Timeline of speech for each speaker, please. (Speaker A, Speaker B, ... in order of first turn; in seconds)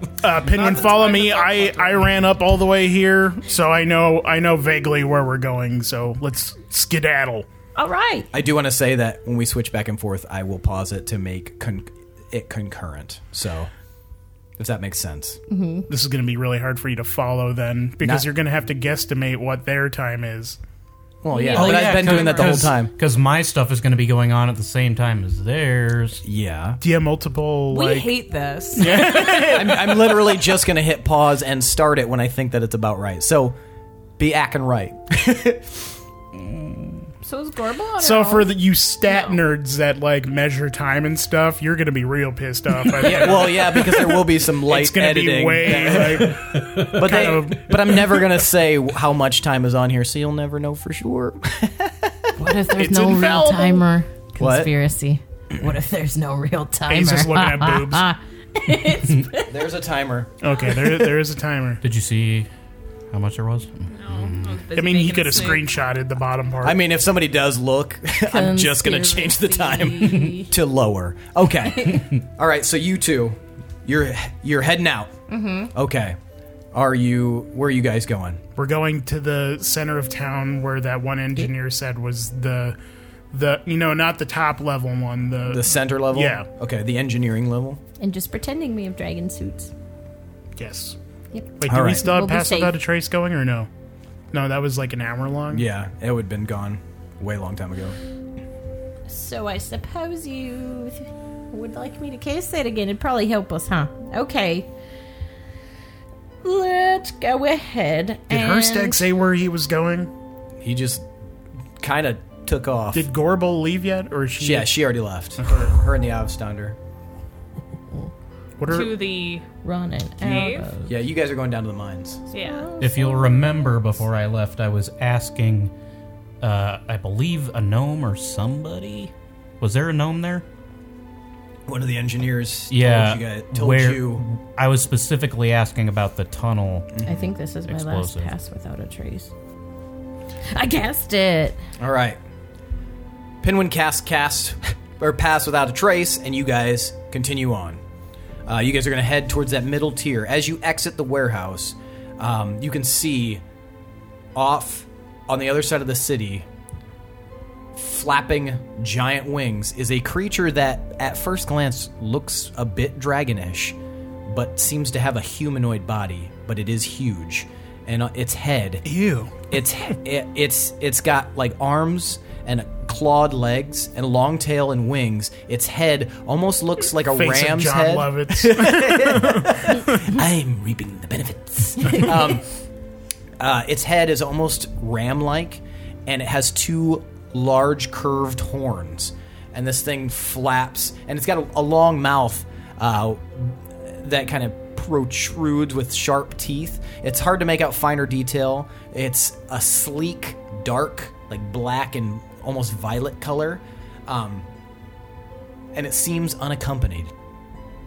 Speaker A: 0.2-7.5, 15.9-20.6, 26.8-28.1, 28.8-30.2, 38.0-47.7, 52.7-53.8, 56.9-58.1, 60.4-61.8, 64.7-66.8, 78.6-82.8, 83.3-86.5, 90.6-91.0, 91.6-93.7, 94.3-95.7, 108.3-110.1, 112.9-114.8, 115.4-115.8, 118.6-119.0, 168.8-169.4, 177.0-180.2
Speaker B: 0.5-2.1, 7.8-8.3, 15.5-15.9, 37.2-38.5, 39.1-39.4, 52.4-59.5, 68.3-70.5, 71.8-72.0, 75.3-75.7, 88.0-89.7, 91.3-92.7, 99.1-104.7, 106.4-109.0, 119.6-121.0, 122.4-123.5, 137.0-139.3, 140.5-141.6
Speaker C: 8.3-13.7, 14.6-15.4, 21.2-22.9, 26.2-26.8, 29.0-33.6, 34.2-35.9, 43.0-52.4, 54.4-54.7, 59.4-60.8, 66.6-75.1, 75.7-76.2, 76.7-78.4, 85.4-87.8, 91.7-92.1, 95.5-98.0, 110.6-111.0, 111.8-113.1, 114.4-116.8, 120.9-122.2, 131.7-134.2, 136.9-137.3, 141.8-142.2, 143.4-147.8, 148.5-153.4, 154.3-156.5, 157.8-168.8, 169.5-182.5, 183.4-204.5, 205.7-207.1
Speaker D: 21.3-22.7, 27.7-29.4, 63.9-65.7, 118.7-119.5, 120.2-120.7, 122.3-122.7
Speaker E: 21.5-26.2, 46.0-47.5, 61.8-62.5, 63.1-64.6, 122.8-125.7, 126.4-130.4, 132.7-137.0, 137.7-138.3